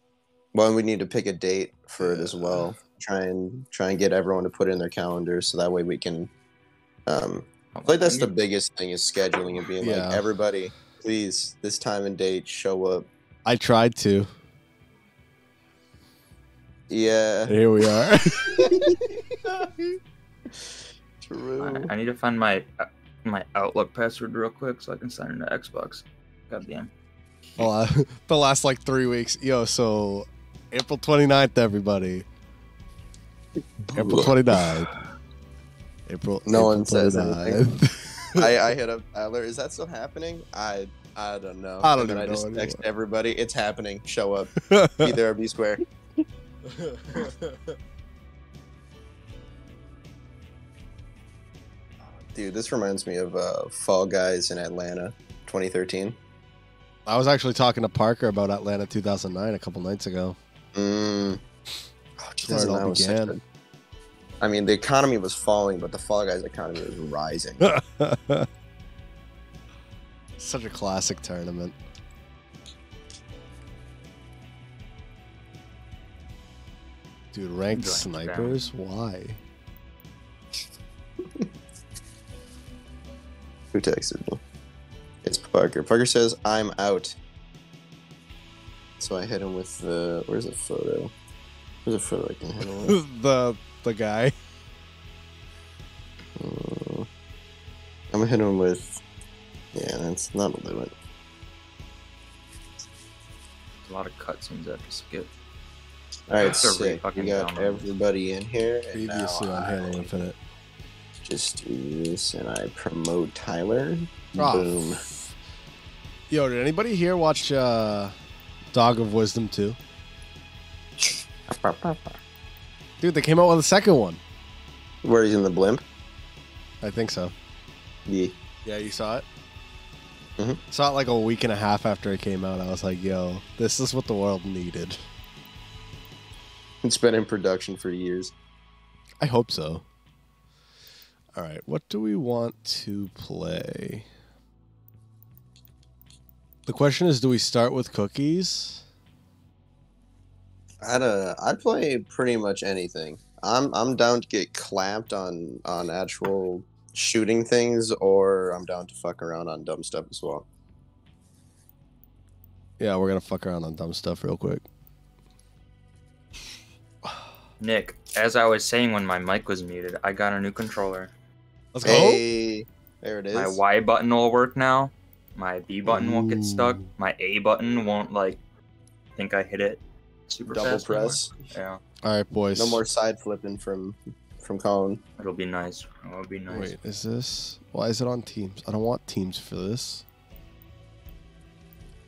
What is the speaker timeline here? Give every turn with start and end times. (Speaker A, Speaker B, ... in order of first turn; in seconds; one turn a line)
Speaker A: 0.5-6.3
Speaker B: 2.0-2.8
Speaker A: 7.1-13.1
Speaker C: 7.8-8.3
Speaker B: 9.8-10.2
Speaker B: 13.4-14.3
Speaker A: 16.9-17.6
Speaker B: 17.5-19.0
Speaker A: 18.5-19.0
Speaker B: 19.7-20.0
Speaker A: 21.2-21.9
Speaker C: 21.6-26.9
Speaker B: 27.6-32.2
Speaker B: 33.9-34.9
Speaker A: 34.0-34.4
Speaker B: 36.1-38.6
Speaker A: 36.5-37.7
Speaker A: 38.4-45.8
Speaker B: 41.8-42.8
Speaker B: 44.7-45.1
Speaker B: 46.7-47.8
Speaker A: 52.4-56.2
Speaker B: 57.1-60.4
Speaker A: 60.8-61.4
Speaker A: 62.2-63.4
Speaker B: 62.4-63.4
Speaker A: 64.4-67.7
Speaker B: 67.6-68.5
Speaker B: 70.4-71.8
Speaker B: 77.3-79.4
Speaker C: 77.7-78.7
Speaker A: 83.7-84.4
Speaker A: 85.2-87.2
Speaker A: 89.0-91.1
Speaker A: 91.8-93.0
Speaker B: 92.6-94.3
Speaker A: 96.4-97.1
Speaker A: 98.1-99.0
Speaker A: 99.7-100.9
Speaker C: 103.8-105.3
Speaker A: 106.3-110.1
Speaker C: 106.3-107.9
Speaker B: 108.9-110.4
Speaker A: 111.2-115.0
Speaker B: 114.4-114.8
Speaker B: 116.3-118.2
Speaker B: 118.7-119.8
Speaker A: 121.0-122.2
Speaker B: 123.0-124.2
Speaker A: 125.0-125.8
Speaker B: 126.8-127.3
Speaker A: 128.1-128.3
Speaker B: 128.7-129.2
Speaker B: 130.7-135.0
Speaker A: 136.8-138.3
Speaker B: 139.2-139.8
Speaker B: 141.3-144.1
Speaker B: 146.7-148.8
Speaker A: 150.8-160.5
Speaker B: 162.8-164.7
Speaker C: 167.6-171.1
Speaker B: 171.7-172.2
Speaker A: 171.8-173.6
Speaker C: 173.3-178.4
Speaker B: 175.9-176.8
Speaker C: 179.2-181.8
Speaker A: 180.5-181.3
Speaker B: 182.0-182.8
Speaker A: 182.6-185.0
Speaker C: 185.2-186.8
Speaker B: 186.5-190.1